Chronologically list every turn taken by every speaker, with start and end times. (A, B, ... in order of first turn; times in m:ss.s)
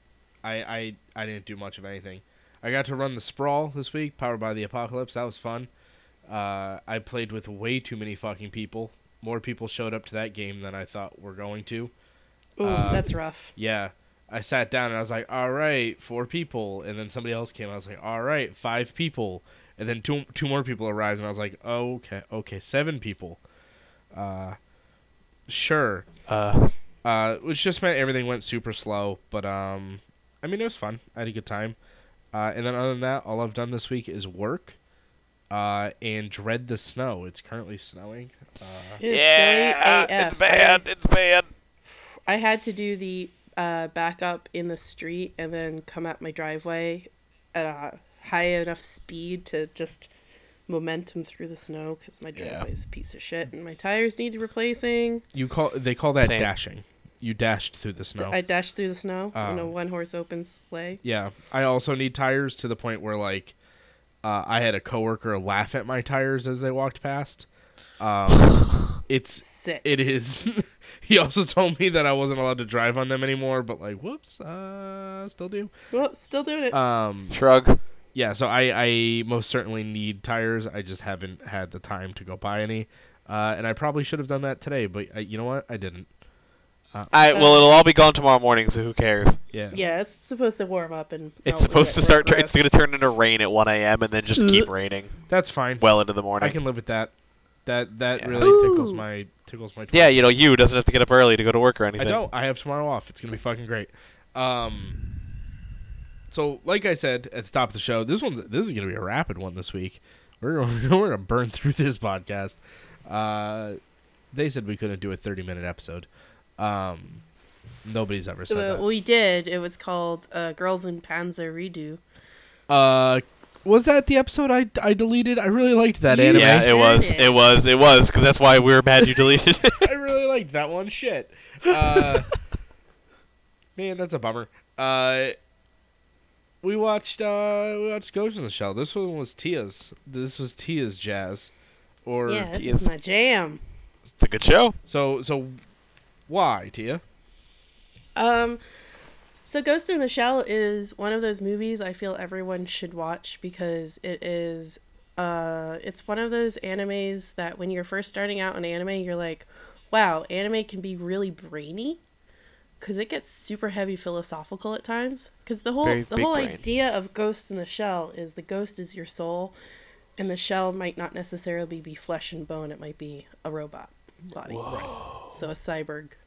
0:00.4-0:05.7 A
0:06.3-0:11.9 A
0:12.6-0:13.5 B
0:12.6-0:23.4 A
0:24.1-0:24.6 A
0:25.5-0:26.1 A
0:26.3-0:26.8 C
0:27.0-0:31.8 A
0:32.3-0:34.8 A
0:35.5-0:39.0 A
0:39.0-0:40.8 B
0:39.1-0:41.5 C
0:42.3-0:50.1 B
0:50.7-0:55.2 B
0:52.4-0:52.7 C
0:55.3-0:58.4 A
0:56.2-0:56.5 C
0:58.2-1:01.0 B
0:59.4-0:59.7 A
1:01.0-1:03.6 A
1:04.2-1:07.5 A
1:08.0-1:15.7 A
1:09.4-1:09.9 B
1:15.9-1:16.8 B
1:16.7-1:17.4 A
1:17.3-1:17.8 C
1:18.1-1:26.1 A
1:27.1-1:29.4 C
1:27.3-1:27.9 B
1:29.7-1:32.7 B
1:31.4-1:35.2 C
1:34.4-1:34.7 B
1:35.3-1:35.8 A
1:35.8-1:36.6 C
1:36.4-1:37.1 A
1:37.7-1:40.1 A
1:38.2-1:38.6 C
1:38.4-1:39.0 B
1:39.9-1:42.2 C
1:42.0-1:45.0 A
1:46.3-1:53.8 A
1:54.3-1:56.1 A
1:56.6-1:57.2 A
1:57.8-1:58.8 A
1:58.5-2:02.0 B
2:02.7-2:06.7 A
2:06.1-2:07.4 B
2:06.3-2:09.9 C
2:09.8-2:12.3 A
2:13.8-2:15.4 A
2:16.6-2:21.5 A
2:22.0-2:22.5 A
2:22.3-2:23.6 B
2:22.5-2:22.9 C
2:24.2-2:24.8 C
2:24.9-2:25.6 A
2:26.3-2:27.0 A
2:28.2-2:28.6 B
2:29.5-2:42.0 B
2:42.8-2:49.6 B
2:45.8-2:46.6 C
2:50.2-2:56.2 B
2:54.5-2:55.3 C
2:54.6-2:54.9 A